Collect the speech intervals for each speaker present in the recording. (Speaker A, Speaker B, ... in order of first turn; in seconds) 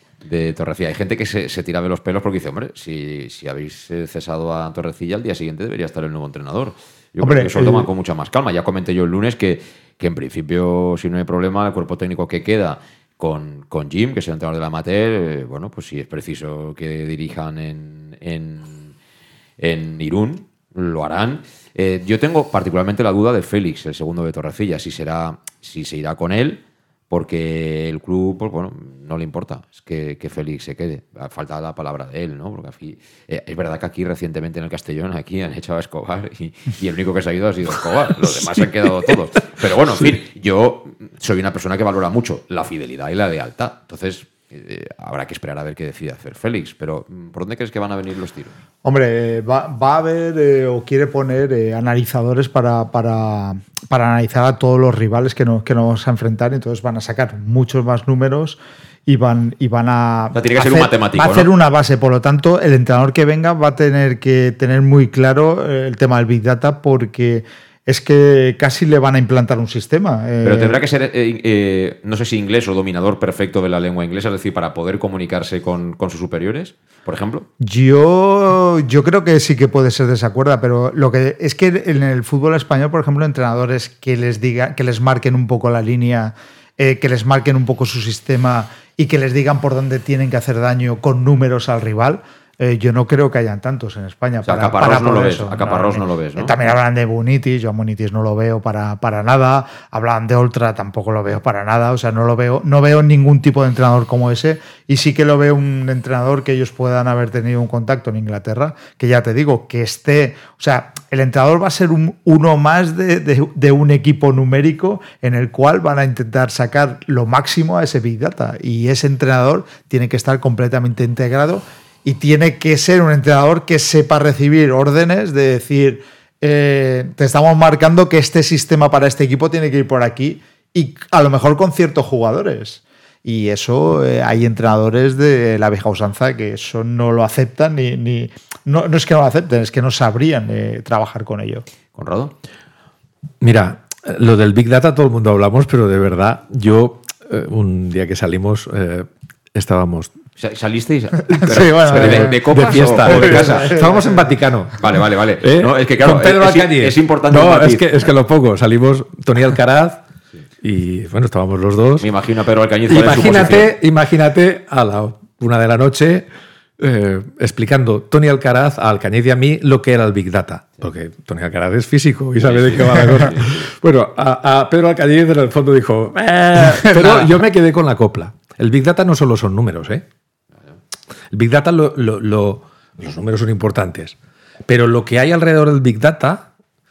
Speaker A: 0.2-18.9, 19.6-48.5, 60.3-61.5, 70.4-77.5, 94.4-96.6, 141.9-142.3, 150.4-154.0, 154.8-157.9, 162.0-163.8, 172.4-173.7, 176.8-177.3
Speaker B: 7.2-7.9, 48.8-70.8, 77.6-141.7, 151.3-154.2
Speaker C: 143.4-150.2, 151.5-160.0, 160.6-162.1, 162.9-180.1, 181.3-186.5